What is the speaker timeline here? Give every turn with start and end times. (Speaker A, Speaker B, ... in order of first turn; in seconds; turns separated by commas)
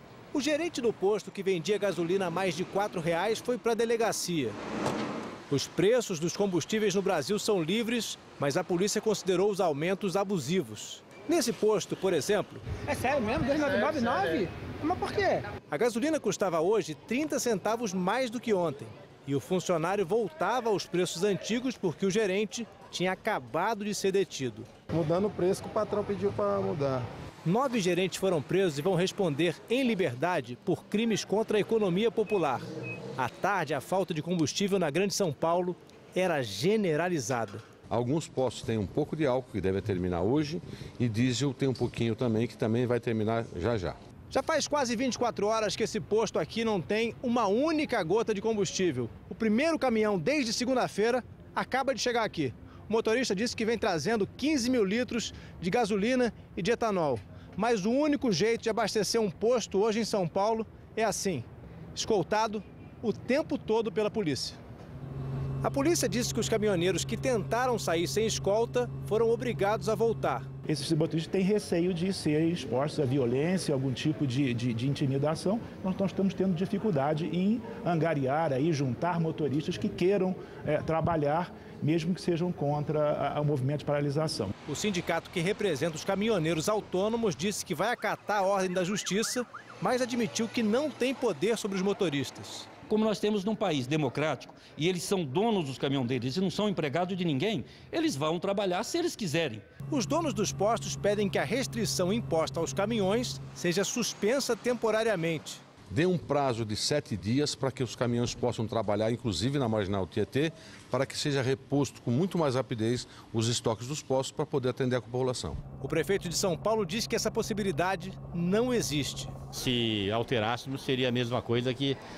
Speaker A: 0.3-4.6, Speaker A: 5.5-12.8, Speaker B: 12.9-15.5, Speaker A: 15.7-24.7, Speaker C: 24.9-27.1, Speaker A: 27.4-32.6, Speaker A: 33.2-37.6, Speaker D: 37.9-44.0, Speaker A: 44.3-64.6, Speaker A: 65.6-70.5, Speaker E: 70.7-84.5, Speaker A: 84.7-92.7, Speaker F: 92.9-99.6, Speaker A: 99.9-105.6, Speaker D: 105.9-115.6, Speaker A: 115.8-119.4, Speaker G: 119.5-122.0